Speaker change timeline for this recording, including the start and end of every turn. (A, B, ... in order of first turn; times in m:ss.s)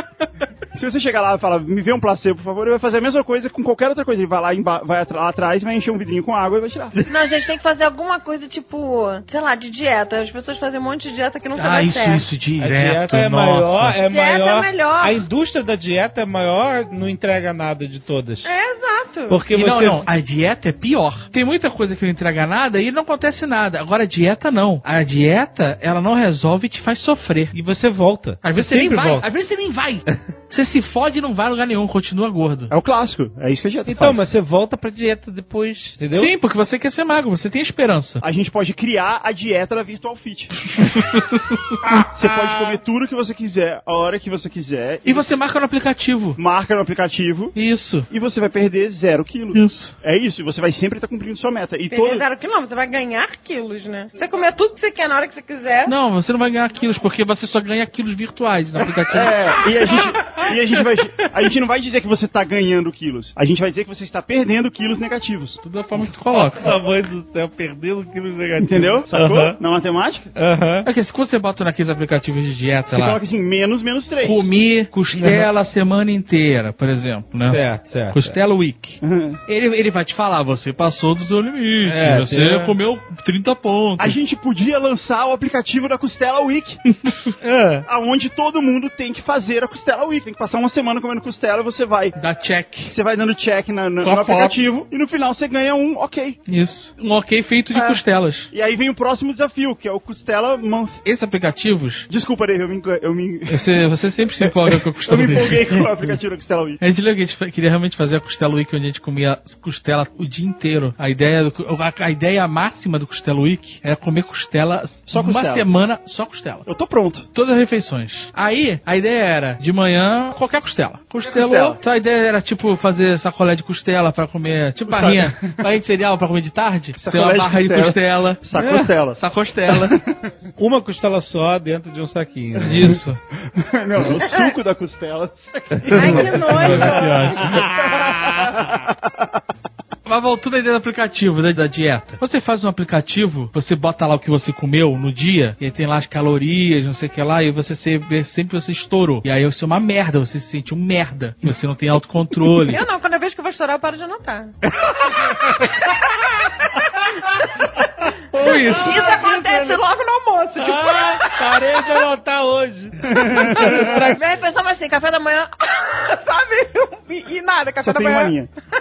0:00.8-0:07.0 A
0:07.1-0:12.3 B
0:11.6-0:14.0 C
0:12.6-0:18.5 D
0:14.1-0:15.2 B
0:18.4-0:19.4 B
0:19.3-0:20.1 D
0:19.5-0:27.6 C
0:27.5-0:29.3 D
0:28.4-0:32.7 C
0:32.7-0:34.2 A
0:33.9-0:36.3 D
0:36.1-0:38.2 C
0:38.2-0:40.7 A
0:40.8-0:41.6 C
0:42.1-0:45.4 A
0:45.0-0:46.4 C
0:46.4-0:47.6 A
0:47.6-0:48.1 C
0:48.1-0:52.2 A
0:49.5-0:49.9 C
0:51.9-0:55.9 B
0:55.9-1:00.1 C
0:59.1-1:05.6 A
1:05.6-1:06.7 C
1:06.6-1:09.6 D
1:08.6-1:10.3 A
1:10.4-1:10.9 D
1:10.8-1:13.2 C
1:12.9-1:14.5 A
1:14.2-1:24.2 C
1:15.1-1:15.5 D
1:17.5-1:18.4 D
1:19.0-1:19.4 A
1:21.8-1:22.8 D
1:24.0-1:26.8 A
1:27.4-1:27.9 D
1:27.9-1:32.2 A
1:32.2-1:32.9 C
1:32.9-1:36.4 A
1:34.0-1:34.6 C
1:36.5-1:38.5 C
1:37.7-1:41.0 A
1:41.0-1:42.1 C
1:42.1-1:43.8 A
1:43.5-1:46.2 C
1:44.4-1:46.8 A
1:46.8-1:56.7 C
1:55.1-1:55.7 A
1:56.7-1:57.3 A
1:57.3-2:08.4 C
2:01.2-2:01.8 A
2:04.9-2:05.6 A
2:07.0-2:10.1 A
2:08.6-2:08.9 D
2:09.2-2:10.0 C
2:10.6-2:13.0 D
2:12.7-2:13.2 C
2:13.4-2:19.3 A
2:14.2-2:14.5 B
2:15.9-2:17.3 B
2:15.9-2:16.9 D
2:16.0-2:17.5 C
2:17.4-2:18.4 D
2:20.1-2:32.8 C
2:32.6-2:36.8 B
2:34.8-2:35.8 D
2:37.0-2:38.0 D
2:38.3-2:39.1 C
2:38.7-2:42.0 B
2:39.1-2:39.8 D
2:40.6-2:44.1 D
2:43.1-2:44.0 A
2:43.8-2:48.4 B
2:47.8-2:48.5 A